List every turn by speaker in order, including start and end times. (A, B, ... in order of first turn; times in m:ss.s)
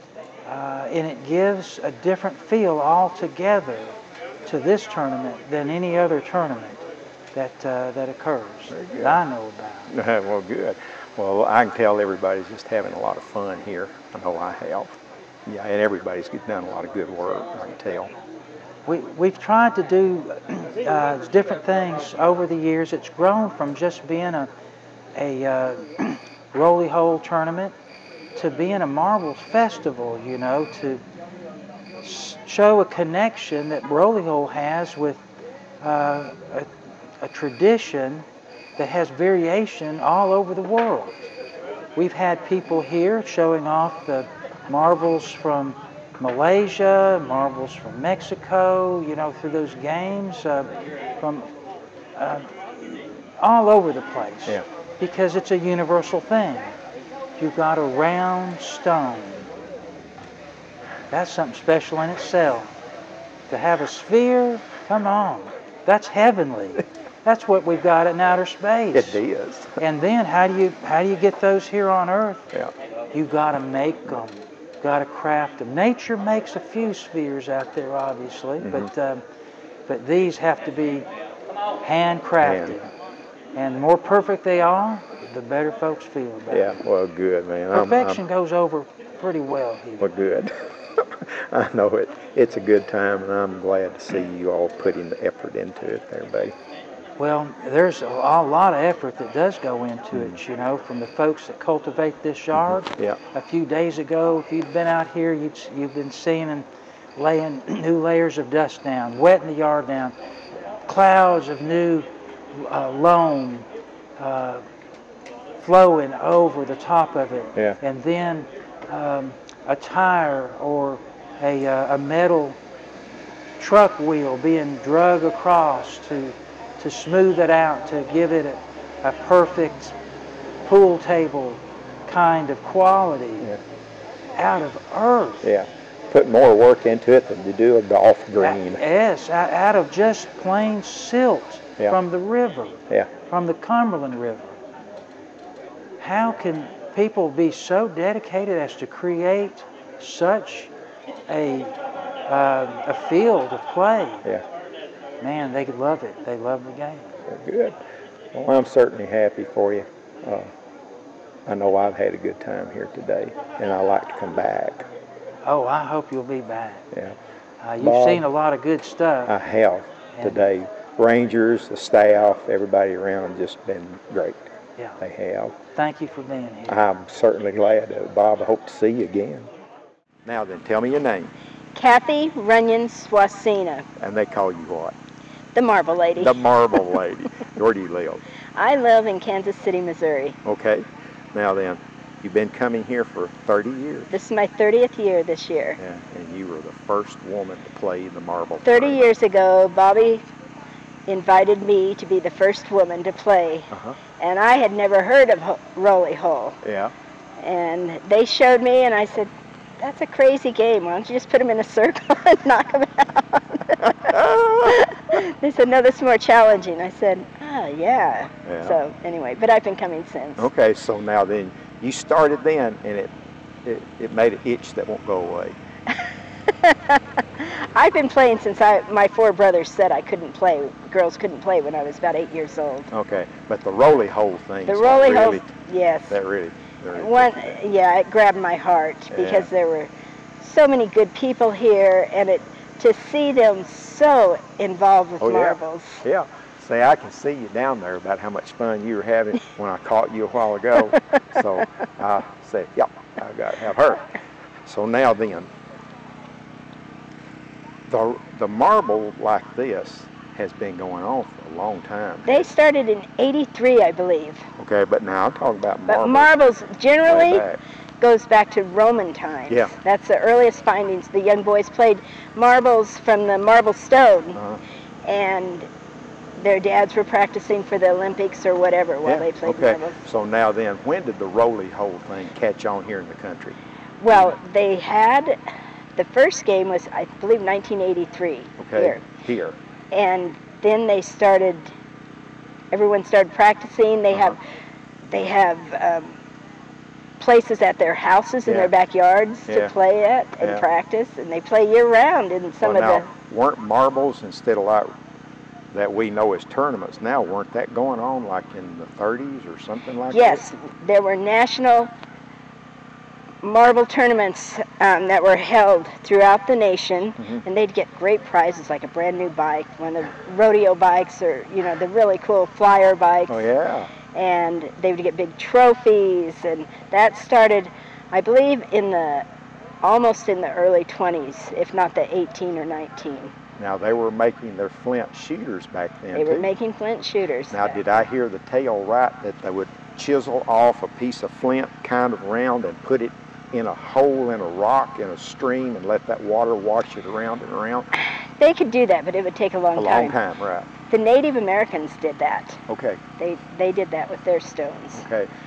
0:00.5-0:09.9 A
0:08.7-0:09.2 B
0:09.9-0:18.1 B
0:18.9-0:24.5 A
0:25.1-0:27.8 A
0:28.4-0:31.0 A
0:32.0-0:35.2 A
0:35.8-0:36.7 A
0:37.2-0:38.2 A
0:38.8-0:41.3 A
0:42.0-0:51.5 A
0:52.1-0:56.8 A
0:57.4-0:59.5 A
1:01.1-1:02.7 A
1:03.5-1:09.2 A
1:08.9-1:09.8 B
1:09.8-1:12.4 A
1:13.1-1:19.2 A
1:18.6-1:18.9 B
1:19.9-1:21.1 A
1:21.8-1:22.9 A
1:22.4-1:22.8 B
1:23.5-1:26.7 A
1:26.5-1:28.2 B
1:27.7-1:30.1 A
1:30.0-1:36.5 B
1:37.2-1:50.1 A
1:40.1-1:40.4 B
1:42.5-1:43.2 B
1:50.9-1:53.7 A
1:54.2-1:54.6 A
1:55.6-2:02.6 A
2:03.6-2:10.0 A
2:10.6-2:13.5 A
2:14.4-2:15.5 A
2:15.4-2:18.8 B
2:18.4-2:24.6 A
2:26.0-2:30.7 A
2:31.3-2:31.7 A
2:32.3-2:34.2 A
2:35.2-2:37.2 A
2:37.2-2:37.8 B
2:38.3-2:40.5 B
2:41.5-2:44.9 B
2:45.4-2:46.8 A
2:46.9-2:47.2 B
2:47.6-2:49.4 A
2:47.8-2:48.2 B
2:49.3-2:54.5 B
2:50.2-2:50.4 A
2:55.0-2:55.6 B
2:55.6-2:56.8 A
2:56.7-2:59.5 B
3:00.2-3:01.3 B
3:01.7-3:03.9 C
3:04.0-3:05.0 B
3:05.5-3:06.4 C
3:06.1-3:08.2 B
3:08.6-3:10.4 C
3:10.4-3:14.1 B
3:14.1-3:15.8 C
3:15.8-3:19.1 B
3:18.6-3:20.2 C
3:21.1-3:26.6 C
3:23.7-3:24.0 B
3:26.6-3:26.9 B
3:27.4-3:34.1 C
3:33.9-3:34.8 B
3:34.6-3:40.5 C
3:38.5-3:38.8 B
3:40.4-3:43.1 B
3:43.6-3:45.5 B
3:46.5-3:52.9 C
3:52.9-3:55.5 B
3:54.7-3:56.2 C
3:56.1-3:57.6 B
3:56.9-4:06.0 C
3:59.1-3:59.5 B
4:05.2-4:14.1 B
4:14.6-4:15.5 B
4:17.9-4:22.5 B
4:22.2-4:24.5 C
4:24.6-4:26.3 B
4:25.9-4:27.4 C
4:27.0-4:27.6 B
4:28.0-4:34.4 C
4:29.5-4:29.7 B
4:34.4-4:34.6 B
4:35.0-4:35.7 C
4:36.4-4:40.0 C
4:39.0-4:43.6 B
4:44.0-4:45.4 C
4:44.1-4:44.4 B
4:46.0-4:49.0 C
4:48.6-4:49.6 B
4:49.9-4:51.7 C
4:52.7-4:54.4 C
4:54.1-4:54.4 B
4:55.1-4:56.2 C
4:57.2-5:03.0 C
4:58.4-4:58.7 B
4:59.5-4:59.7 B
5:00.4-5:00.7 B
5:02.6-5:05.0 B
5:05.7-5:10.4 B
5:10.1-5:11.9 C
5:13.4-5:23.4 C
5:17.2-5:17.4 B
5:23.3-5:23.9 B
5:24.1-5:29.2 C
5:29.8-5:33.3 C
5:33.6-5:36.5 B
5:36.1-5:37.8 C
5:37.5-5:47.9 B
5:48.0-5:50.1 C
5:49.8-5:50.7 B
5:50.9-5:52.6 C
5:52.7-5:53.0 B
5:53.2-5:55.0 C
5:54.9-5:55.3 B